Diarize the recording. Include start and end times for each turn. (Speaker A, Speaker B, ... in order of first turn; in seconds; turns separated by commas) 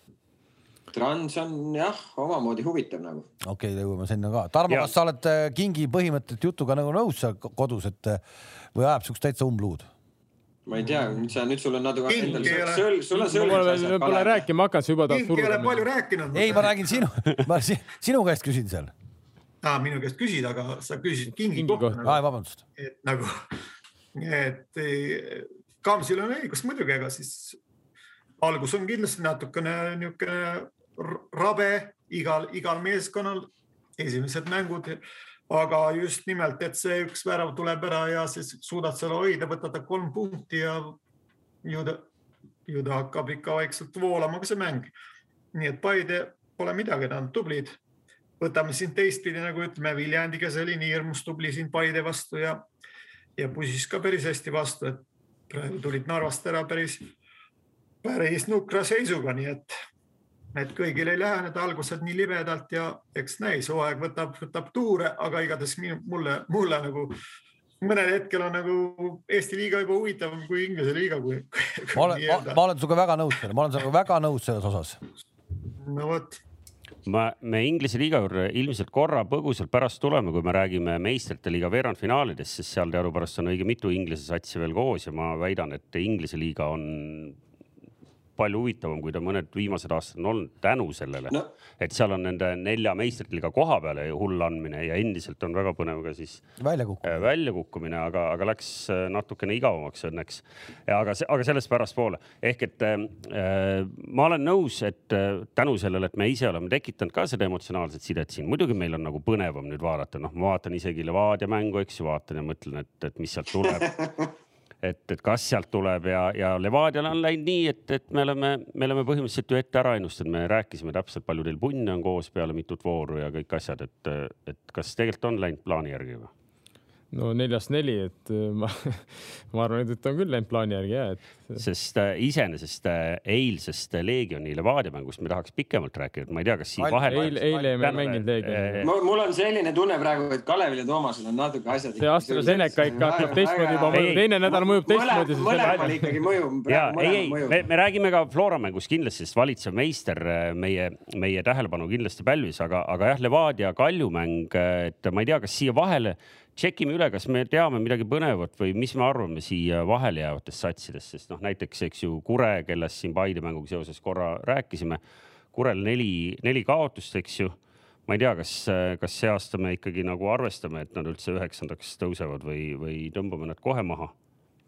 Speaker A: 0.9-3.3, Speaker B: 3.4-8.2, Speaker C: 4.7-4.9, Speaker B: 8.7-9.9, Speaker A: 10.7-14.5, Speaker D: 12.1-12.9, Speaker E: 12.2-12.6, Speaker E: 13.1-15.9, Speaker D: 15.1-17.0, Speaker B: 16.3-18.9, Speaker D: 19.6-22.2, Speaker E: 21.5-22.0, Speaker B: 22.0-22.6, Speaker D: 22.8-23.4, Speaker D: 24.1-27.6, Speaker D: 28.4-41.0, Speaker D: 41.6-42.1, Speaker D: 42.7-44.9, Speaker D: 45.5-47.8, Speaker D: 48.4-52.6, Speaker D: 53.4-57.0, Speaker D: 58.0-59.7, Speaker D: 60.5-67.2, Speaker D: 67.8-72.6, Speaker B: 72.0-75.0, Speaker D: 75.8-76.4, Speaker C: 77.0-87.4, Speaker C: 88.4-96.4, Speaker B: 96.6-97.3, Speaker C: 97.0-114.0, Speaker A: 113.9-114.3, Speaker C: 114.8-126.3, Speaker E: 127.1-131.6, Speaker C: 131.6-138.9, Speaker B: 136.8-138.0, Speaker E: 137.1-138.8, Speaker A: 138.8-147.6, Speaker E: 142.0-146.2, Speaker C: 143.9-144.3, Speaker C: 146.7-165.0, Speaker C: 165.5-167.5, Speaker C: 168.1-174.1